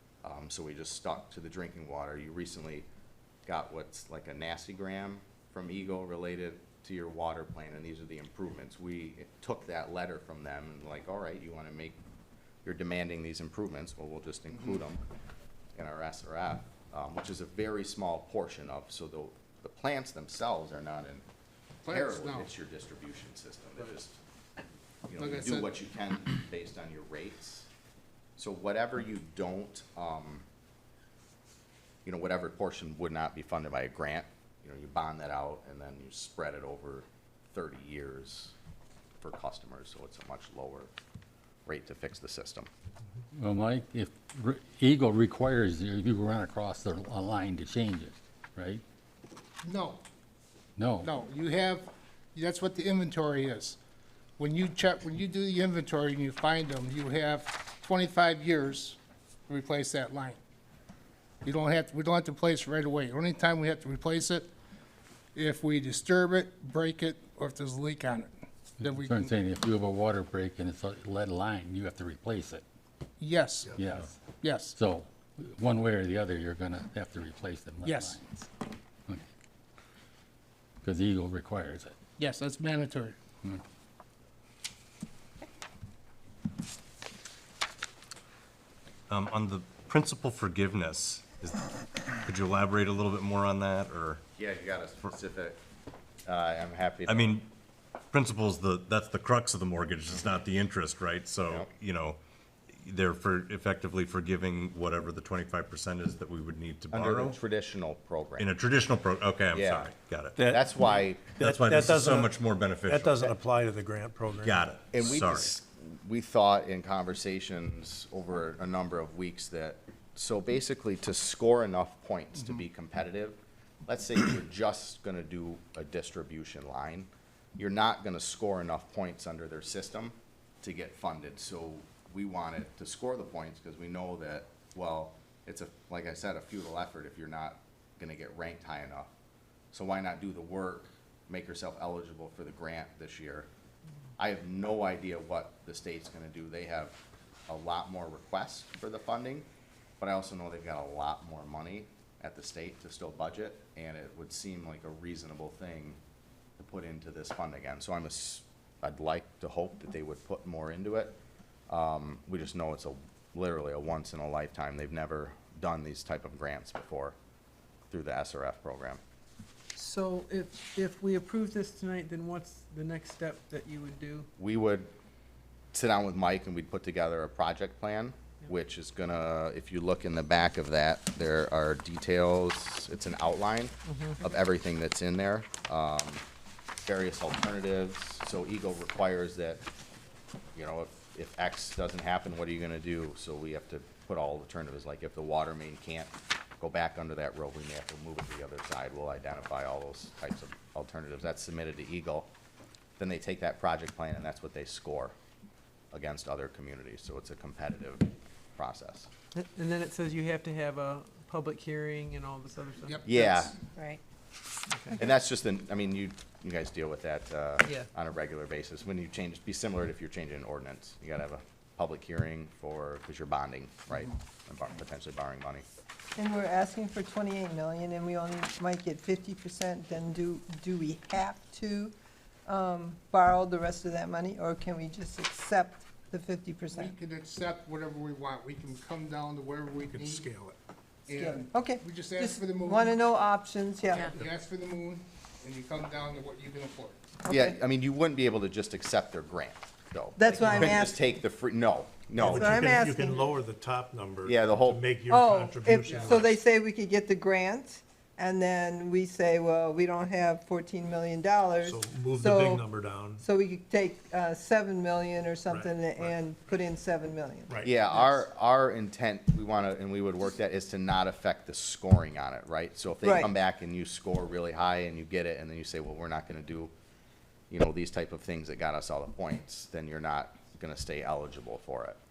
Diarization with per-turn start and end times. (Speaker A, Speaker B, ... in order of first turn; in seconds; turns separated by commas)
Speaker A: 0.2-2.9, Speaker A: 3.5-12.0, Speaker A: 12.6-15.0, Speaker A: 15.8-21.2, Speaker B: 21.9-22.5, Speaker A: 21.9-24.2, Speaker A: 25.1-27.7, Speaker B: 25.1-25.7, Speaker A: 28.4-30.4, Speaker A: 32.0-38.5, Speaker A: 39.2-40.9, Speaker A: 41.7-42.7, Speaker C: 43.3-48.8, Speaker B: 49.6-50.0, Speaker C: 50.8-51.1, Speaker B: 51.0-53.8, Speaker B: 54.4-60.4, Speaker B: 61.4-64.5, Speaker B: 65.3-69.3, Speaker C: 68.8-72.6, Speaker B: 73.2-73.8, Speaker C: 73.8-74.1, Speaker B: 74.4-74.8, Speaker C: 74.8-78.5, Speaker B: 77.8-78.2, Speaker C: 80.8-82.0, Speaker B: 82.2-83.2, Speaker D: 89.1-91.7, Speaker D: 92.2-94.2, Speaker A: 94.4-95.6, Speaker A: 96.3-97.4, Speaker D: 97.1-97.5, Speaker D: 98.1-102.2, Speaker D: 102.7-107.4, Speaker A: 106.9-108.5, Speaker D: 108.4-110.5, Speaker A: 109.5-111.5, Speaker E: 110.4-110.7, Speaker D: 111.4-113.4, Speaker E: 111.4-114.6, Speaker D: 114.4-115.5, Speaker A: 114.9-139.1, Speaker A: 139.7-143.5, Speaker A: 144.2-149.5, Speaker A: 150.0-156.0, Speaker A: 156.6-161.2, Speaker A: 161.7-167.2, Speaker A: 167.9-169.0, Speaker F: 169.8-174.3, Speaker A: 174.4-174.9, Speaker A: 175.7-186.2, Speaker F: 183.9-184.2, Speaker A: 186.9-189.6, Speaker A: 190.6-202.3, Speaker A: 203.0-205.1, Speaker A: 205.9-209.1, Speaker F: 209.4-213.0, Speaker B: 212.8-213.5, Speaker A: 213.1-213.6, Speaker A: 215.0-225.7, Speaker G: 226.2-231.9, Speaker G: 232.5-236.9, Speaker B: 236.7-240.5, Speaker E: 239.9-240.5, Speaker B: 241.1-243.0, Speaker G: 241.1-244.1, Speaker B: 244.0-247.0, Speaker G: 247.3-247.5, Speaker A: 247.3-252.8, Speaker G: 250.2-251.0, Speaker E: 252.2-256.4, Speaker G: 252.2-253.4, Speaker A: 254.2-254.8, Speaker G: 255.1-268.2, Speaker E: 261.6-263.2, Speaker E: 265.5-266.2, Speaker A: 267.6-276.7, Speaker G: 273.0-273.3, Speaker A: 277.5-282.0